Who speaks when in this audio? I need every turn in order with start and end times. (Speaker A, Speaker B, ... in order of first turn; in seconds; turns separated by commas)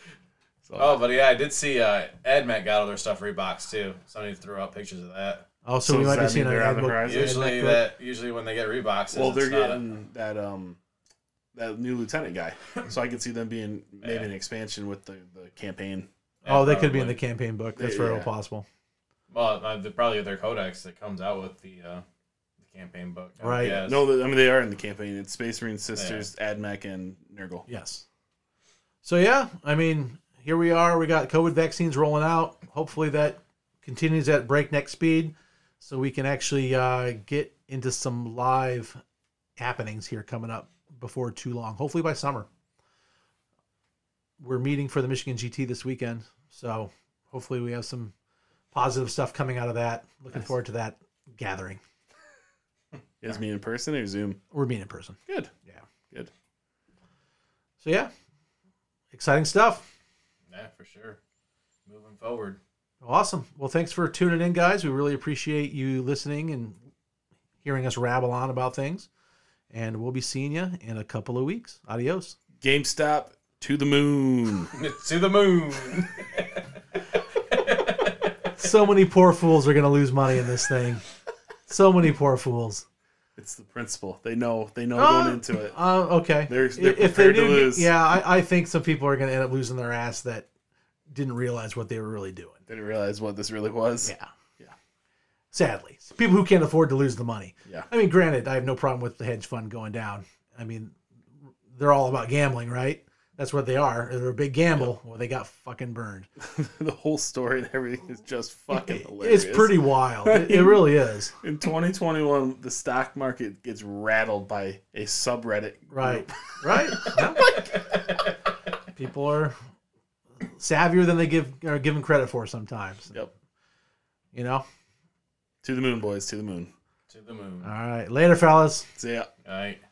Speaker A: 0.7-1.0, Speaker B: 0.8-5.5, Speaker C: 5.7-7.8, Speaker A: 5.8-7.4, Speaker B: 7.0-9.8, Speaker A: 9.1-10.8, Speaker A: 11.5-16.1, Speaker B: 14.0-14.3, Speaker B: 16.4-17.2, Speaker C: 16.5-18.6, Speaker A: 17.8-18.3, Speaker B: 19.3-22.0, Speaker B: 22.6-24.1, Speaker C: 23.4-23.8, Speaker A: 23.6-27.7, Speaker B: 26.0-26.2, Speaker C: 27.7-28.1, Speaker C: 29.0-39.0, Speaker C: 39.6-42.5, Speaker C: 44.4-48.1, Speaker C: 48.7-51.8, Speaker A: 53.2-54.4, Speaker C: 54.5-55.8, Speaker A: 55.3-55.5, Speaker C: 57.8-58.1, Speaker C: 59.1-59.9, Speaker B: 60.5-61.2, Speaker B: 61.9-62.6, Speaker C: 63.0-66.8, Speaker C: 67.6-69.1, Speaker C: 69.7-72.4, Speaker A: 72.6-74.7, Speaker B: 74.7-78.3, Speaker C: 78.6-81.0, Speaker C: 81.7-82.8, Speaker A: 83.4-85.8, Speaker C: 85.0-90.5, Speaker A: 86.5-87.9, Speaker C: 91.1-92.6, Speaker A: 92.7-94.7, Speaker C: 94.0-94.3, Speaker C: 95.5-101.0, Speaker C: 101.7-106.3, Speaker A: 106.4-110.9, Speaker C: 108.7-111.3, Speaker A: 111.4-116.3, Speaker C: 115.9-117.6, Speaker A: 117.0-117.6, Speaker B: 117.4-118.2, Speaker C: 119.0-119.6, Speaker C: 120.5-123.2, Speaker C: 124.3-124.6, Speaker A: 125.6-126.7, Speaker B: 127.1-127.7, Speaker C: 127.6-128.9, Speaker A: 129.0-129.3, Speaker B: 129.4-129.8